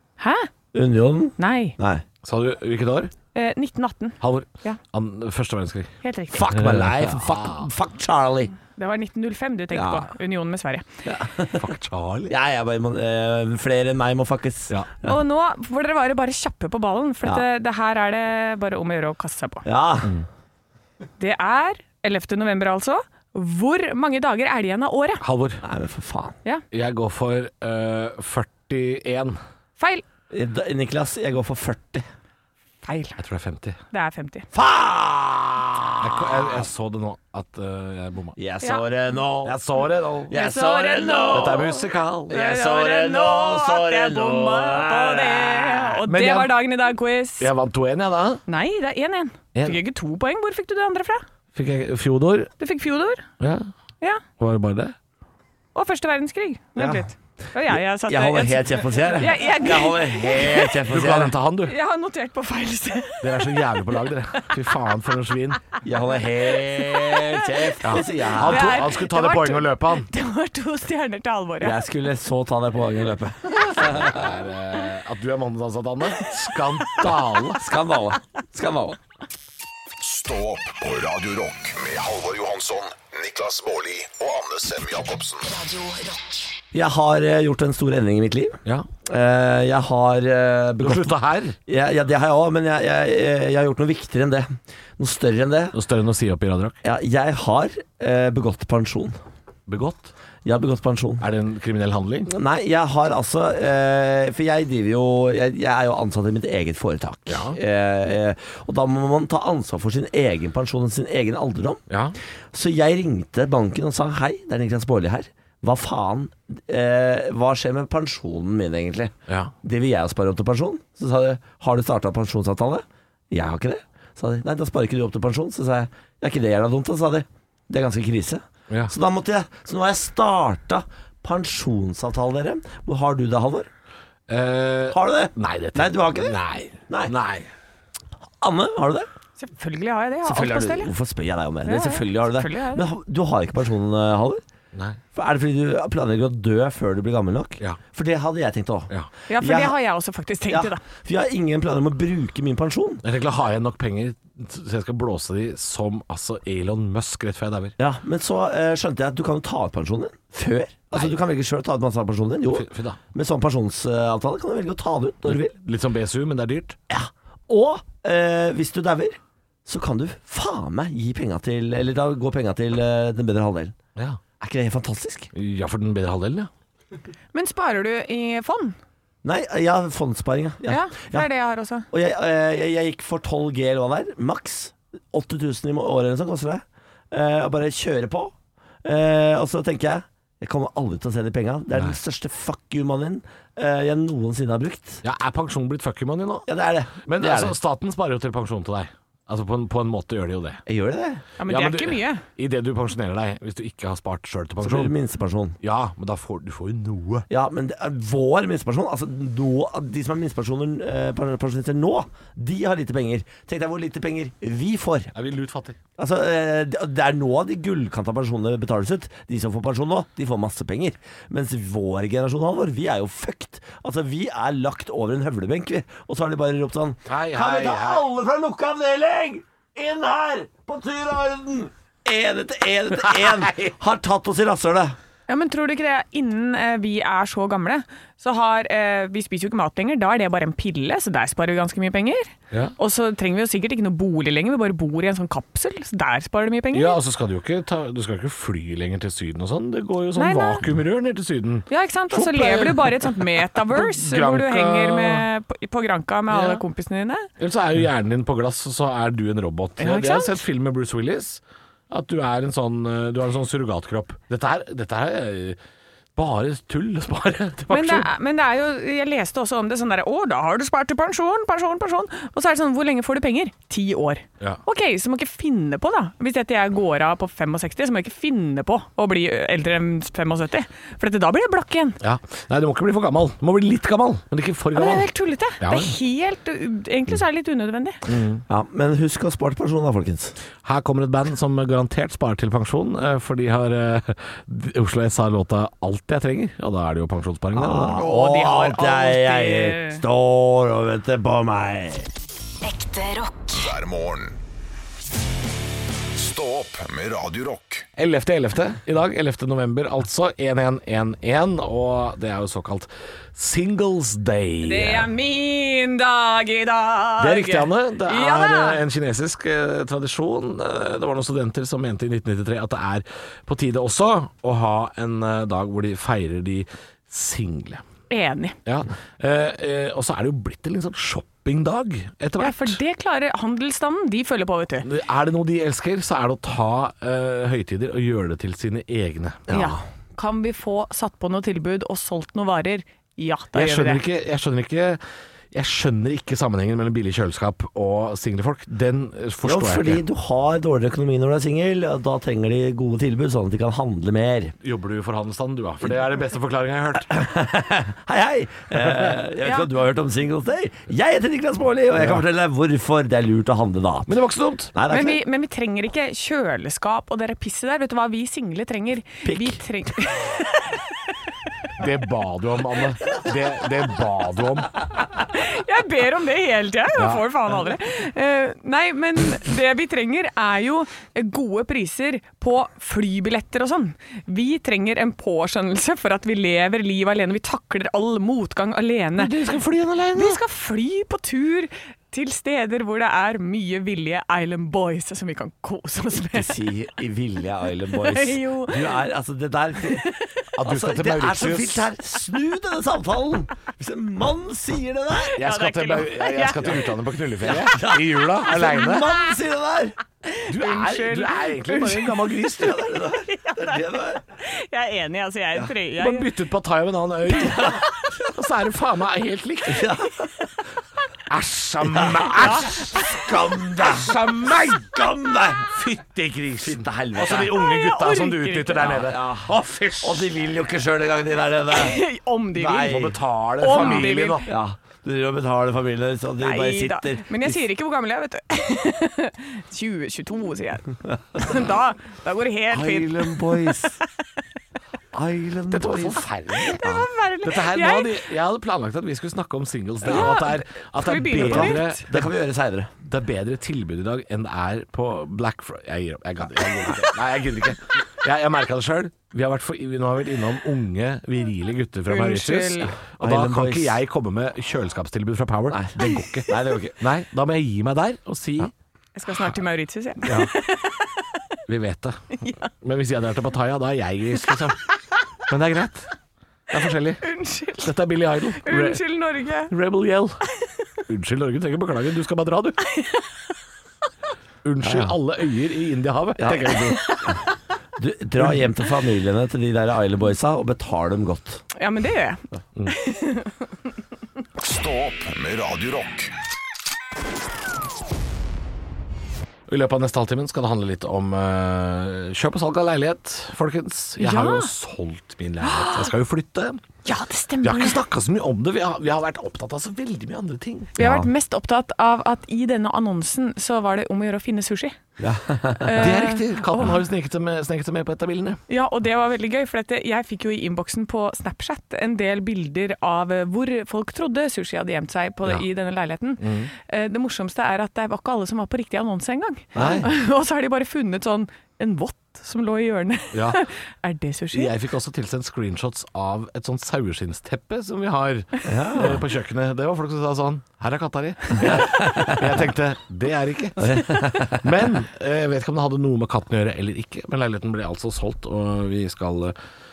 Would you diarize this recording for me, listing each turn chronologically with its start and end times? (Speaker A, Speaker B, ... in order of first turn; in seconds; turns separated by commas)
Speaker A: 0.2-0.5, Speaker B: 0.7-2.0, Speaker A: 1.4-1.8, Speaker C: 2.2-3.1, Speaker A: 3.3-4.8, Speaker C: 4.2-5.9, Speaker A: 6.0-6.5, Speaker B: 6.3-8.5, Speaker C: 6.5-7.7, Speaker A: 8.8-11.0, Speaker B: 9.7-10.1, Speaker B: 11.1-11.7, Speaker C: 11.6-12.3, Speaker B: 12.3-15.1, Speaker A: 15.0-19.7, Speaker B: 19.6-20.2, Speaker A: 21.2-25.2, Speaker C: 25.2-25.6, Speaker B: 25.6-26.4, Speaker C: 26.7-29.4, Speaker A: 29.8-30.0, Speaker B: 30.3-32.1, Speaker A: 32.8-33.2, Speaker C: 33.2-33.8, Speaker A: 33.9-34.5, Speaker B: 34.5-36.7, Speaker C: 36.0-38.4, Speaker B: 38.4-39.6, Speaker C: 39.4-40.4, Speaker B: 40.2-46.0, Speaker A: 40.3-41.7, Speaker C: 41.3-42.4, Speaker A: 42.3-47.5, Speaker C: 46.1-46.6, Speaker C: 47.4-48.4, Speaker A: 48.5-51.2, Speaker C: 51.5-52.5, Speaker A: 52.6-53.3, Speaker C: 53.4-53.7, Speaker C: 54.4-55.0, Speaker A: 55.8-60.8, Speaker B: 56.8-57.0, Speaker B: 57.7-61.4, Speaker C: 60.9-61.8, Speaker A: 61.6-63.6, Speaker C: 63.2-65.7, Speaker B: 65.8-68.8, Speaker A: 66.8-67.8, Speaker C: 67.8-70.1, Speaker A: 68.4-71.8, Speaker B: 71.6-74.2, Speaker C: 73.8-77.7, Speaker B: 77.6-79.0, Speaker D: 80.0-85.5, Speaker E: 85.4-86.6, Speaker B: 86.7-95.8, Speaker C: 90.8-91.6, Speaker C: 95.7-96.8, Speaker B: 96.8-99.2, Speaker C: 99.7-100.1, Speaker B: 100.5-101.3, Speaker C: 101.2-102.3, Speaker B: 102.3-111.8, Speaker C: 107.3-107.6, Speaker C: 111.9-112.2, Speaker B: 112.5-133.7, Speaker C: 119.3-119.5, Speaker C: 134.3-137.5, Speaker B: 134.9-136.4, Speaker B: 136.9-137.1, Speaker B: 138.4-139.1, Speaker A: 139.4-140.9, Speaker B: 140.2-144.4, Speaker A: 141.7-142.9, Speaker C: 144.7-145.0, Speaker B: 145.2-149.8, Speaker A: 149.3-150.8, Speaker B: 150.5-153.0, Speaker C: 153.0-157.7, Speaker B: 157.8-165.5, Speaker C: 162.5-163.0, Speaker C: 165.3-166.8, Speaker B: 166.9-173.8, Speaker B: 174.4-175.3, Speaker C: 175.3-176.5, Speaker A: 177.3-178.8, Speaker B: 179.2-181.3, Speaker A: 180.7-181.9, Speaker B: 181.9-195.0, Speaker C: 195.0-196.5, Speaker B: 196.5-197.6, Speaker C: 197.1-200.6, Speaker B: 200.7-201.2, Speaker A: 201.4-202.2, Speaker C: 201.4-204.9, Speaker B: 204.6-205.6, Speaker C: 205.6-207.3, Speaker B: 207.3-215.1, Speaker C: 215.2-215.8, Speaker B: 216.0-235.0, Speaker C: 227.1-228.1, Speaker C: 233.2-233.7, Speaker A: 235.3-247.0, Speaker C: 246.7-255.3, Speaker A: 250.2-250.7, Speaker A: 251.7-257.3, Speaker C: 256.3-256.6, Speaker C: 257.4-265.6, Speaker A: 259.8-260.4, Speaker C: 266.2-268.1, Speaker A: 267.7-282.0, Speaker C: 282.0-285.9, Speaker A: 284.7-288.0, Speaker C: 288.1-288.4, Speaker B: 288.5-290.4, Speaker C: 290.6-298.0, Speaker B: 297.5-302.1, Speaker A: 297.9-300.0, Speaker E: 302.6-303.6, Speaker D: 303.5-304.4, Speaker D: 306.2-307.9, Speaker C: 308.0-315.1, Speaker A: 314.6-318.8, Speaker C: 317.2-327.8, Speaker A: 328.1-328.6, Speaker C: 328.7-332.8, Speaker A: 332.4-334.9, Speaker C: 334.8-339.4, Speaker B: 339.5-339.8, Speaker A: 339.5-344.0, Speaker C: 343.6-345.0, Speaker C: 345.5-350.0, Speaker B: 349.4-354.6, Speaker C: 354.6-357.1, Speaker B: 357.1-364.2, Speaker C: 358.8-359.1, Speaker C: 364.1-364.8, Speaker B: 364.7-365.2, Speaker A: 364.9-370.9, Speaker B: 369.2-369.6, Speaker C: 371.8-374.8, Speaker A: 375.2-389.3, Speaker C: 377.0-377.5, Speaker C: 389.2-390.4, Speaker A: 390.1-396.6, Speaker B: 396.3-400.1, Speaker A: 398.0-398.9, Speaker A: 400.0-400.4, Speaker C: 400.6-401.9, Speaker B: 400.6-405.4, Speaker A: 405.3-406.9, Speaker C: 405.4-409.1, Speaker B: 407.4-410.0, Speaker A: 410.3-412.3, Speaker C: 410.5-412.9, Speaker B: 412.6-414.2, Speaker A: 413.3-416.3, Speaker C: 416.0-420.0, Speaker B: 417.3-417.8, Speaker A: 417.4-418.0, Speaker B: 419.7-420.3, Speaker C: 421.3-423.0, Speaker B: 421.9-424.2, Speaker C: 423.8-425.0, Speaker B: 424.8-425.7, Speaker C: 425.7-430.4, Speaker B: 426.6-427.6, Speaker A: 427.5-429.0, Speaker B: 428.8-432.0, Speaker A: 431.7-433.0, Speaker B: 432.5-433.2, Speaker C: 432.8-434.5, Speaker A: 433.6-434.4, Speaker B: 433.7-437.6, Speaker A: 436.4-444.0, Speaker B: 442.7-444.0, Speaker B: 445.1-446.3, Speaker C: 445.7-452.3, Speaker A: 446.8-448.2, Speaker B: 450.1-450.3, Speaker A: 450.1-452.1, Speaker B: 451.4-452.9, Speaker C: 453.0-468.7, Speaker A: 462.1-462.9, Speaker B: 463.2-464.0, Speaker B: 465.7-467.0, Speaker A: 469.2-471.4, Speaker C: 470.2-470.5, Speaker C: 471.7-474.8, Speaker A: 472.4-472.7, Speaker C: 475.5-476.1, Speaker C: 476.7-477.3, Speaker A: 477.2-477.9, Speaker C: 477.8-479.0, Speaker A: 478.6-479.7, Speaker C: 479.7-480.4, Speaker C: 481.1-482.8, Speaker A: 482.9-483.3, Speaker C: 484.6-487.2, Speaker B: 484.8-485.2, Speaker B: 486.4-487.4, Speaker B: 488.0-491.6, Speaker A: 491.8-493.6, Speaker D: 494.6-496.3, Speaker C: 499.7-506.8, Speaker A: 504.2-504.7, Speaker A: 505.6-506.1, Speaker A: 507.1-508.0, Speaker C: 507.6-510.9, Speaker A: 510.9-515.0, Speaker B: 511.0-511.3, Speaker B: 515.2-516.1, Speaker A: 515.8-517.0, Speaker C: 516.0-518.6, Speaker A: 518.7-534.7, Speaker C: 526.4-526.7, Speaker B: 529.8-530.1, Speaker C: 529.8-530.1, Speaker C: 533.3-533.6, Speaker C: 534.5-549.5, Speaker B: 538.7-539.2, Speaker B: 541.7-542.5, Speaker B: 543.8-544.6